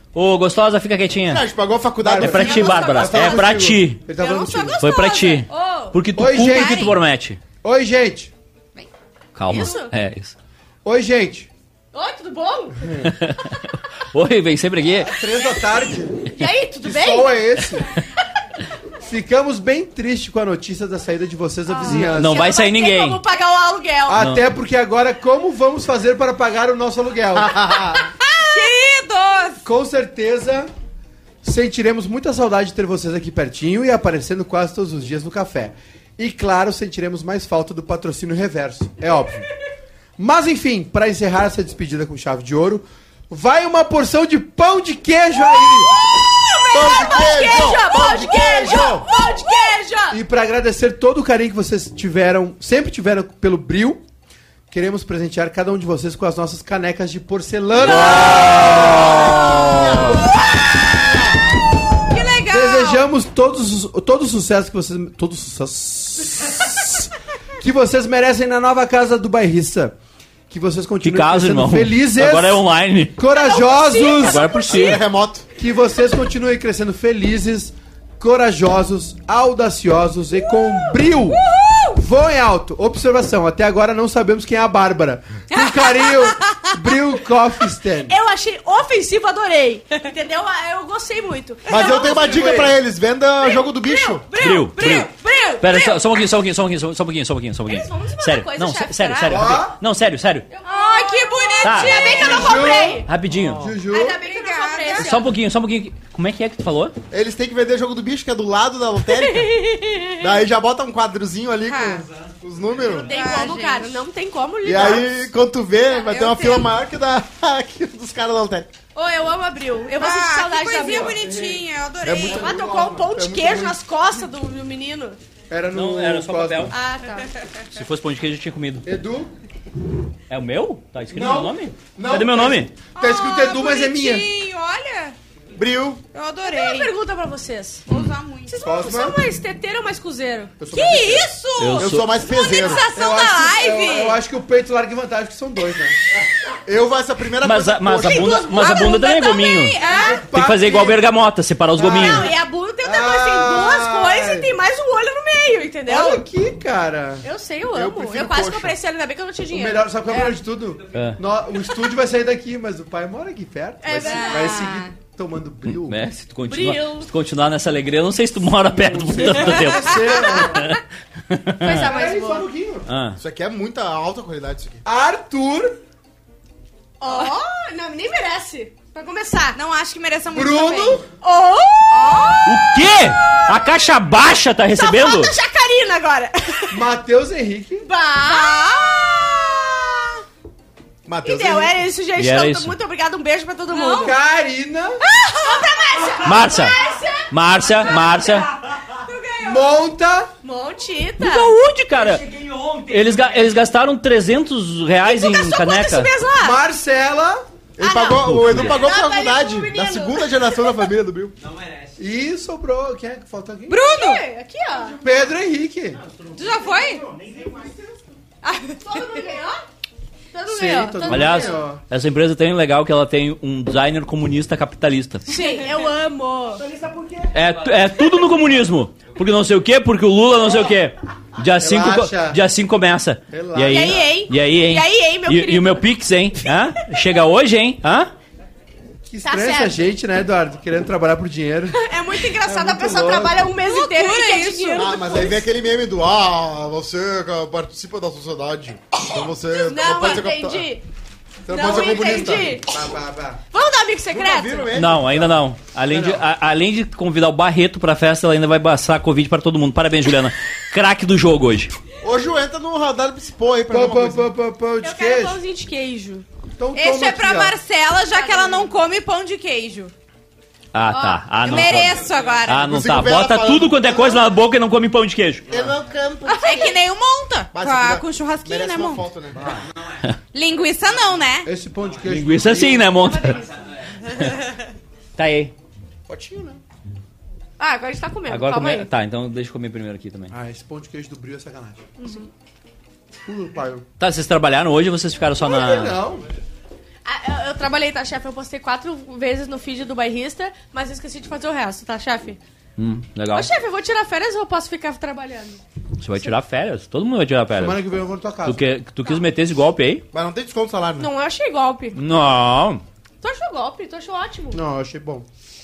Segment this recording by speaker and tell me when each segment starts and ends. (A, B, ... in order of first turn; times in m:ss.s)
0:00.1-0:01.4 A
0:01.3-0:03.8 B
0:02.0-0:04.8 C
0:02.1-0:04.0 A
0:02.9-0:03.3 D
0:04.2-0:05.5 E
0:04.2-0:04.7 D
0:04.8-0:07.4 A
0:05.5-0:06.0 D
0:06.2-0:06.9 C
0:06.4-0:07.0 E
0:07.6-0:08.3 C
0:09.4-0:10.4 A
0:09.5-0:09.9 D
0:10.8-0:11.5 C
0:11.9-0:12.9 D
0:12.8-0:13.1 C
0:13.0-0:15.1 A
0:15.0-0:16.3 C
0:16.2-0:17.4 D
0:16.8-0:17.9 C
0:19.0-0:22.4 C
0:21.7-0:24.3 D
0:21.9-0:23.2 A
0:24.1-0:27.8 C
0:24.2-0:24.4 A
0:27.3-0:28.1 B
0:28.4-0:29.6 E
0:29.6-0:30.7 C
0:31.4-0:39.5 C
0:40.2-0:45.9 C
0:45.4-0:50.2 D
0:46.7-0:49.1 B
0:50.1-0:54.0 C
0:54.7-1:00.2 C
0:57.9-1:00.3 B
0:58.0-0:58.6 E
0:59.6-1:00.7 E
1:02.1-1:03.0 E
1:02.5-1:07.1 C
1:07.6-1:10.0 C
1:10.5-1:12.6 C
1:11.0-1:13.2 A
1:13.2-1:14.5 C
1:13.5-1:14.8 D
1:14.2-1:15.0 A
1:14.6-1:15.5 B
1:15.6-1:21.4 C
1:20.7-1:22.0 D
1:22.0-1:28.2 C
1:25.5-1:26.2 D
1:28.1-1:32.5 D
1:31.7-1:34.3 B
1:31.7-1:32.8 C
1:33.4-1:36.0 D
1:34.4-1:40.5 A
1:37.7-1:39.5 D
1:39.3-1:39.8 C
1:40.5-1:43.1 D
1:40.6-1:42.7 E
1:41.6-1:42.4 A
1:42.1-1:44.2 C
1:43.0-1:43.7 A
1:43.3-1:43.7 B
1:43.9-1:45.3 D
1:44.1-1:45.2 E
1:45.0-1:47.0 A
1:47.1-1:53.1 B
1:49.1-1:50.2 D
1:51.7-1:52.0 E
1:52.9-1:55.3 D
1:53.1-1:54.0 E
1:54.6-1:58.7 B
1:55.8-1:56.7 E
1:59.0-2:01.2 D
2:00.0-2:02.5 E
2:00.9-2:01.6 C
2:02.0-2:03.8 B
2:02.2-2:05.2 D
2:02.5-2:03.0 C
2:05.5-2:06.7 C
2:05.7-2:06.7 A
2:06.7-2:07.3 D
2:07.7-2:08.9 A
2:08.8-2:09.3 C
2:10.3-2:12.7 A
2:11.1-2:14.3 C
2:13.0-2:15.2 E
2:15.6-2:16.0 B
2:16.1-2:16.9 E
2:16.4-2:20.6 D
2:17.9-2:18.6 E
2:18.6-2:19.2 C
2:20.6-2:21.4 C
2:20.7-2:24.2 E
2:21.6-2:22.1 A
2:21.8-2:22.9 B
2:22.9-2:26.0 C
2:26.7-2:28.6 B
2:27.4-2:29.8 A
2:28.2-2:29.0 D
2:28.3-2:30.2 E
2:29.8-2:30.2 D
2:29.8-2:31.1 C
2:30.3-2:32.3 A
2:31.8-2:32.3 C
2:31.8-2:36.2 D
2:32.8-2:34.6 C
2:35.9-2:37.2 C
2:37.2-2:40.3 D
2:37.7-2:38.8 B
2:39.5-2:46.0 C
2:40.9-2:41.2 A
2:43.8-2:44.9 D
2:44.0-2:44.9 E
2:45.7-2:51.9 A
2:46.5-2:47.1 D
2:48.8-2:50.7 C
2:51.6-2:52.5 D
2:51.8-2:52.9 C
2:52.9-2:53.2 A
2:53.2-2:54.8 B
2:54.8-2:55.8 C
2:57.0-2:59.6 D
2:57.1-2:57.4 E
2:59.6-3:01.0 E
3:00.3-3:01.0 C
3:01.2-3:03.5 D
3:01.9-3:02.6 E
3:02.4-3:05.4 A
3:04.8-3:06.7 D
3:06.7-3:07.9 C
3:07.8-3:09.6 D
3:08.2-3:09.6 E
3:11.1-3:11.8 B
3:11.2-3:14.2 D
3:12.2-3:12.8 A
3:13.7-3:14.1 E
3:14.0-3:15.0 C
3:15.1-3:19.7 D
3:16.2-3:16.8 A
3:17.3-3:18.5 A
3:19.4-3:20.3 C
3:20.4-3:21.5 D
3:21.2-3:26.1 A
3:25.0-3:26.6 D
3:26.4-3:27.4 C
3:27.8-3:31.4 B
3:27.8-3:30.8 D
3:28.2-3:28.8 A
3:32.0-3:33.8 C
3:33.7-3:34.2 E
3:33.8-3:35.0 D
3:35.0-3:36.0 C
3:36.4-3:37.1 E
3:38.5-3:39.6 D
3:40.3-3:41.6 D
3:40.5-3:41.8 C
3:41.1-3:45.3 A
3:45.3-3:46.7 D
3:46.8-3:47.1 C
3:47.3-3:58.1 A
3:51.6-3:52.4 C
3:53.3-3:54.0 C
3:53.7-3:55.9 D
3:59.0-4:01.8 C
3:59.2-3:59.9 D
4:01.7-4:05.4 D
4:02.3-4:03.5 C
4:03.6-4:05.0 E
4:04.8-4:10.7 B
4:09.6-4:10.9 D
4:11.5-4:12.6 B
4:11.5-4:12.7 D
4:11.5-4:13.4 C
4:13.5-4:14.7 D
4:14.1-4:15.4 B
4:14.7-4:21.8 A
4:15.9-4:16.2 C
4:22.0-4:24.2 B
4:23.7-4:25.4 C
4:24.8-4:26.2 D
4:26.6-4:27.6 C
4:26.8-4:29.9 E
4:28.1-4:28.7 D
4:30.7-4:35.6 A
4:30.9-4:31.8 D
4:31.4-4:32.7 E
4:32.6-4:34.2 B
4:35.5-4:36.8 B
4:36.3-4:36.8 D
4:36.4-4:39.0 E
4:37.5-4:39.6 B
4:39.4-4:39.6 C
4:40.3-4:41.5 E
4:41.4-4:43.0 C
4:42.0-4:43.4 A
4:43.0-4:43.6 D
4:45.2-4:45.5 A
4:46.1-4:46.6 B
4:46.1-4:46.6 C
4:47.6-4:48.9 D
4:48.3-4:50.3 A
4:50.3-4:51.9 C
4:52.0-4:52.3 D
4:53.3-4:53.9 C
4:54.0-4:56.0 A
4:55.4-4:56.2 C
4:57.0-5:02.4 D
5:02.8-5:03.5 A
5:03.3-5:05.6 D
5:06.0-5:07.8 A
5:07.6-5:08.6 C
5:08.4-5:10.0 A
5:10.1-5:11.1 B
5:11.0-5:12.0 D
5:11.9-5:12.8 A
5:13.2-5:14.6 D
5:14.5-5:15.3 C